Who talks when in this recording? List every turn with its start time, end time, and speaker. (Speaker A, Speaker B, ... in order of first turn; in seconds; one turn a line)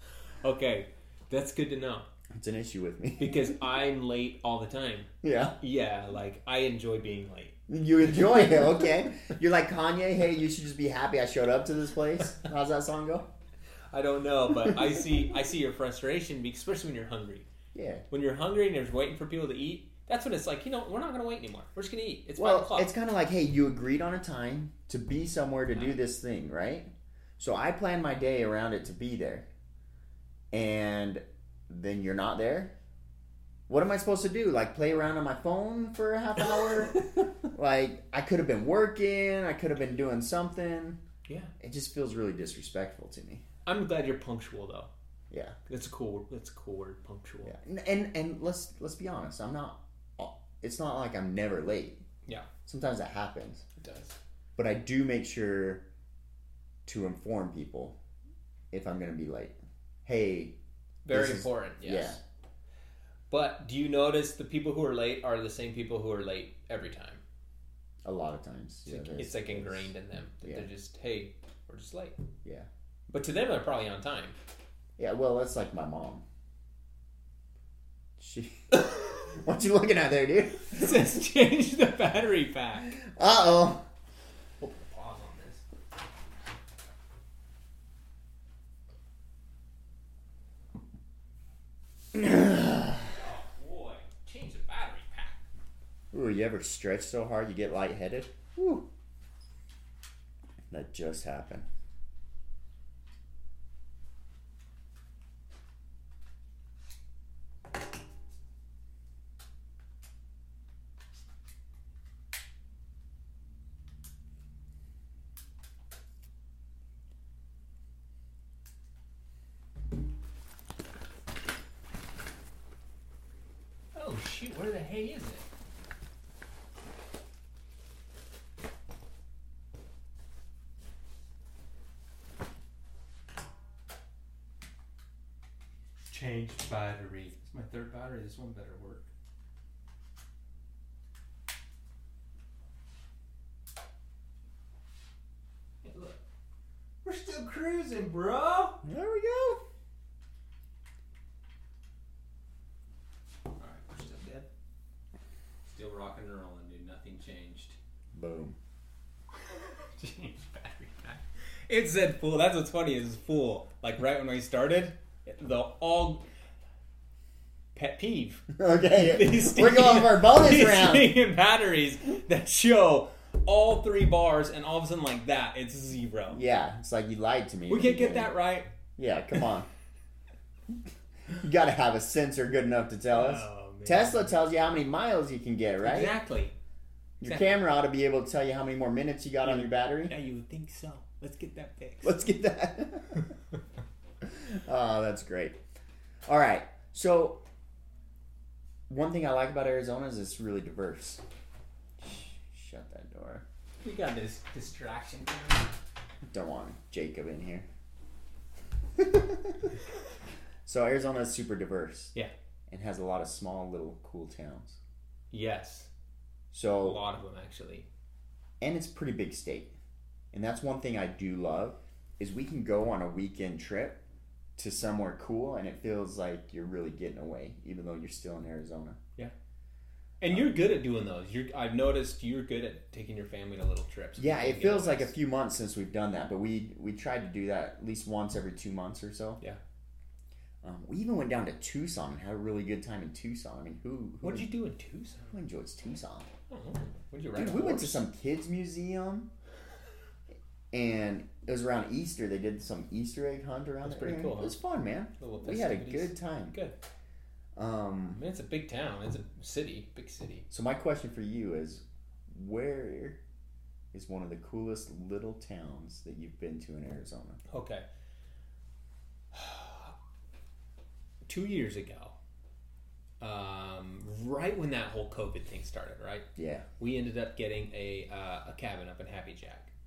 Speaker A: 0.4-2.1
Speaker B: 2.4-3.5
Speaker A: 3.2-5.1
Speaker B: 5.2-5.5
Speaker A: 5.6-7.6
Speaker B: 7.7-13.3
Speaker A: 13.9-17.5
Speaker B: 14.6-15.0
Speaker B: 17.7-18.0
Speaker A: 18.1-22.9
Speaker B: 22.4-29.5
Speaker B: 30.5-32.7
Speaker B: 33.7-41.0
Speaker A: 41.3-41.5
Speaker B: 41.6-43.4
Speaker A: 43.7-44.9
Speaker A: 45.7-47.5
Speaker B: 47.5-52.0
Speaker B: 52.7-53.6
Speaker A: 53.8-54.1
Speaker B: 54.6-55.8
Speaker B: 56.9-58.0
Speaker B: 58.7-60.6
Speaker A: 61.0-62.2
Speaker B: 61.1-62.2
Speaker A: 63.3-67.2
Speaker B: 68.0-70.7
Speaker A: 68.9-72.2
Speaker A: 73.1-74.4
Speaker B: 75.0-76.2
Speaker B: 78.2-81.0
Speaker A: 80.6-83.0
Speaker B: 82.9-83.8
Speaker A: 84.6-85.6
Speaker B: 92.1-93.1
Speaker A: 93.0-95.4
Speaker B: 96.1-98.9
Speaker B: 100.7-101.7
Speaker A: 123.9-125.5
Speaker A: 136.1-139.1
Speaker A: 145.8-146.2
Speaker A: 147.0-148.8
Speaker B: 148.8-149.6
Speaker A: 153.6-154.5
Speaker A: 155.7-157.8
Speaker B: 158.1-158.6
Speaker A: 159.5-166.2
Speaker A: 167.8-176.4
Speaker B: 168.6-171.2
Speaker B: 176.3-178.3
Speaker A: 177.7-178.7
Speaker B: 179.0-179.7
Speaker B: 181.3-186.1
Speaker A: 183.1-184.3
Speaker A: 185.8-186.5
Speaker B: 187.2-190.1
Speaker A: 187.2-187.5
Speaker A: 189.4-192.2
Speaker B: 192.0-193.3
Speaker B: 194.2-195.6
Speaker B: 196.3-197.4
Speaker B: 198.9-201.2
Speaker B: 202.0-203.4
Speaker A: 203.8-205.7
Speaker B: 206.3-207.7
Speaker B: 209.0-209.7
Speaker B: 210.7-212.1
Speaker B: 212.7-214.8
Speaker A: 215.3-215.9
Speaker B: 216.5-217.0
Speaker A: 216.8-217.9
Speaker B: 218.6-219.7
Speaker B: 220.3-224.0
Speaker B: 224.6-229.0
Speaker A: 230.2-235.1
Speaker B: 234.2-239.4
Speaker B: 240.6-244.5
Speaker A: 244.2-245.3
Speaker B: 245.3-246.3
Speaker A: 246.5-248.0
Speaker B: 247.4-249.3
Speaker B: 250.7-256.6
Speaker A: 253.8-254.6
Speaker A: 255.2-256.7
Speaker B: 257.6-258.2
Speaker A: 258.1-260.5
Speaker B: 260.5-263.2
Speaker B: 263.9-267.4
Speaker A: 267.5-267.9
Speaker A: 269.3-269.9
Speaker A: 271.3-272.1
Speaker A: 273.2-276.3
Speaker B: 276.4-276.6
Speaker A: 276.8-279.7